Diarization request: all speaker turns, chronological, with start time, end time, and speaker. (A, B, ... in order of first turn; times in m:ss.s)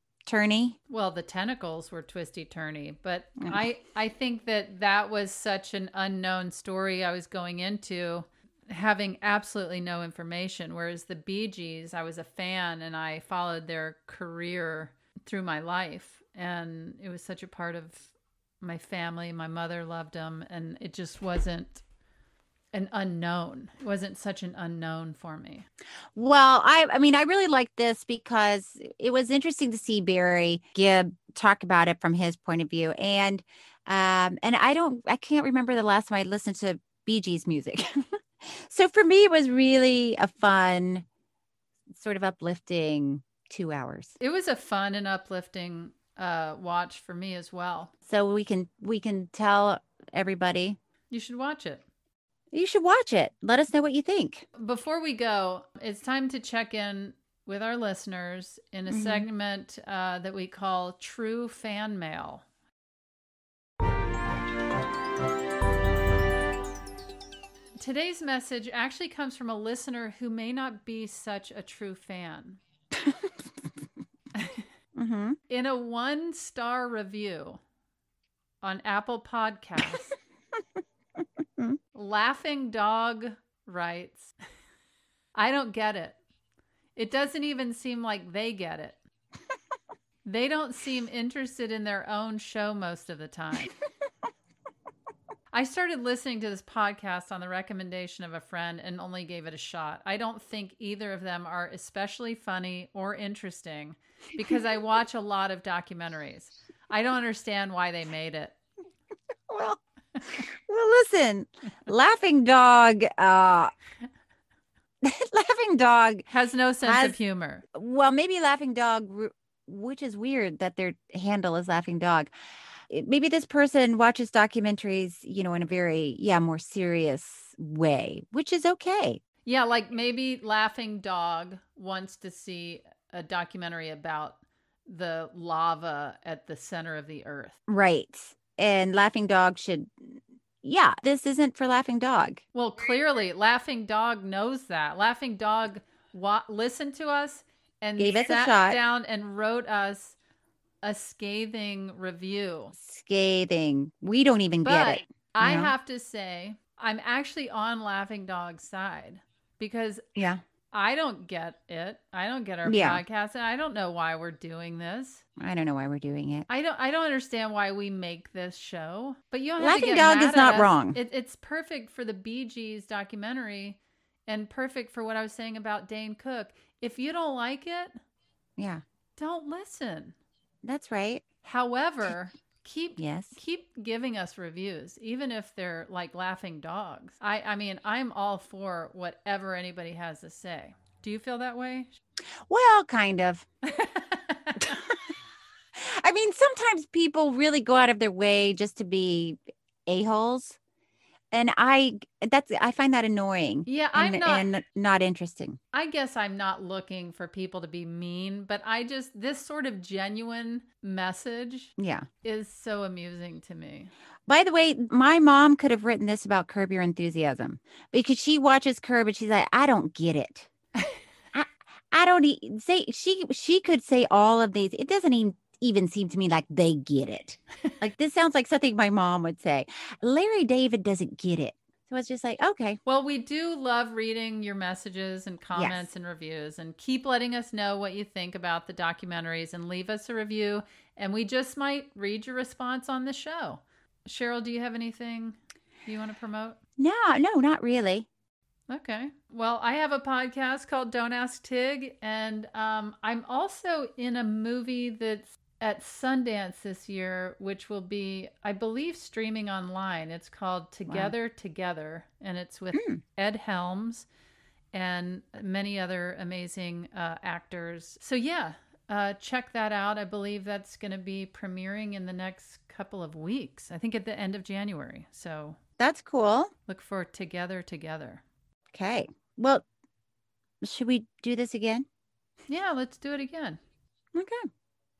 0:00.2-0:00.8 A
0:00.9-0:21.8 B
0:22.7-0:25.6 B
0:26.1-0:41.0 A
0:41.9-0:44.1 A
0:44.2-0:47.9 B
0:48.0-0:50.8 A
0:51.1-0:51.8 B
0:52.5-0:54.5 A
0:54.6-1:02.4 B
0:58.9-0:59.2 A
1:07.8-1:12.6 B
1:13.0-1:13.3 A
1:14.4-1:14.6 B
1:15.0-1:15.4 A
1:15.5-1:17.6 B
1:18.6-1:20.1 B
1:21.9-1:24.3 B
1:25.4-1:26.2 B
1:27.0-1:29.0 B
1:30.2-1:33.7 B
1:35.5-1:48.6 B
1:49.5-1:53.7 A
1:55.0-1:56.2 A
1:56.3-1:57.6 B
1:56.8-1:57.2 A
1:57.7-2:02.3 A
2:02.9-2:09.2 A
2:09.4-2:17.6 B
2:17.7-2:22.4 A
2:22.5-2:30.2 B
2:28.0-2:28.8 A
2:30.8-2:32.7 B
2:32.7-2:35.7 A
2:34.6-2:40.0 B
2:40.1-2:40.4 A
2:40.7-2:45.2 B
2:42.6-2:43.0 A
2:45.4-2:46.5 A
2:46.5-2:58.0 B
2:49.6-2:51.0 A
2:58.6-2:58.8 A
2:59.2-3:00.1 B
3:00.6-3:01.2 A
3:01.4-3:11.9 B
3:03.0-3:03.4 A
3:12.5-3:13.5 A
3:13.6-3:14.8 B
3:14.6-3:14.9 A
3:15.7-3:20.6 A
3:21.3-3:25.6 A
3:23.7-3:24.5 B
3:25.7-3:31.7 B
3:31.8-3:32.0 A
3:32.2-3:33.9 B
3:34.3-3:40.5 A
3:41.3-3:52.8 A
3:52.8-4:06.6 B
3:55.5-3:55.9 A
4:06.8-4:08.1 A
4:08.7-4:24.0 B
4:22.7-4:23.0 A
4:24.7-4:35.6 B
4:35.8-4:36.5 A
4:36.7-4:38.2 B
4:38.7-4:39.6 A
4:40.6-4:41.8 A
4:42.5-4:43.6 B
4:44.1-4:44.5 A